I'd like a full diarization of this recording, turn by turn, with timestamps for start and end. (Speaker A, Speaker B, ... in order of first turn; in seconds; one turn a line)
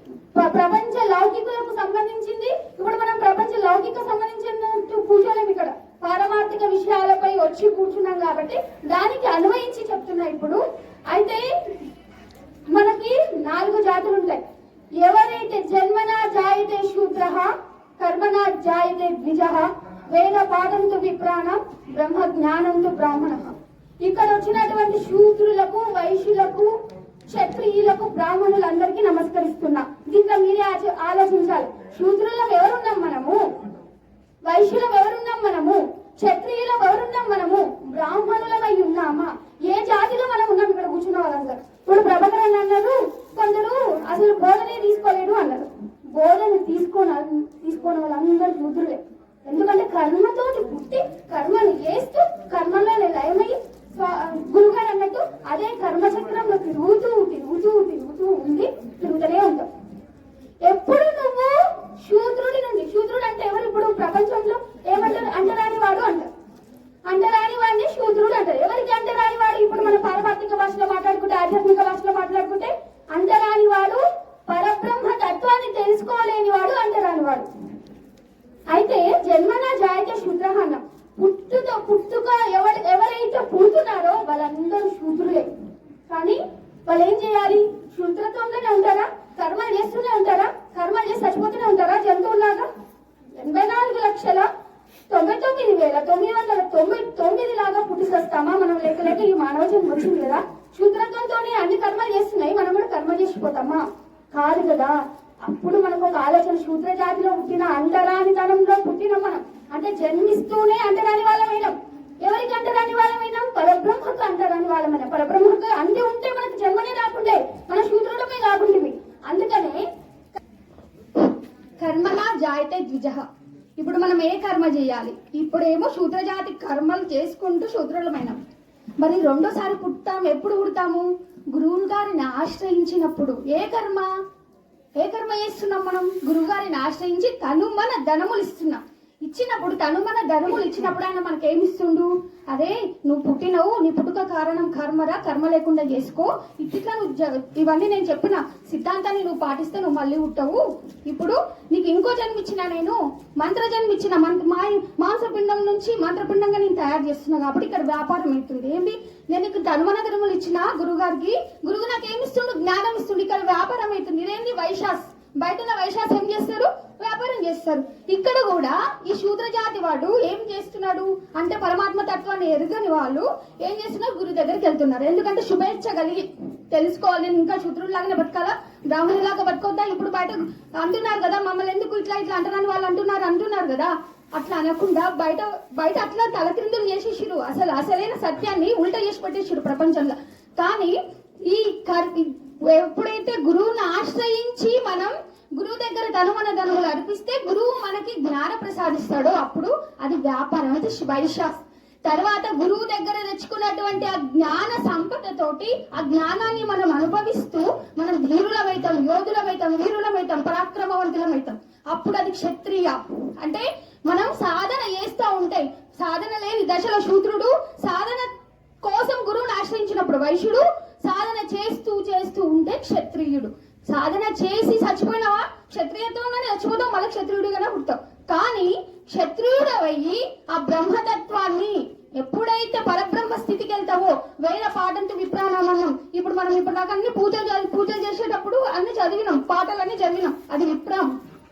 Speaker A: 0.3-11.5
Speaker A: 12.7-14.4
Speaker A: 15.0-26.7
Speaker A: 27.3-33.4
Speaker A: 34.4-59.7
Speaker A: 60.6-66.3
Speaker A: 67.1-77.5
Speaker A: 78.7-85.5
Speaker A: 86.1-92.7
Speaker A: 93.4-94.5
Speaker A: 95.1-119.8
Speaker A: 121.8-123.2
Speaker A: 123.8-128.4
Speaker A: 129.0-134.1
Speaker A: 135.0-241.1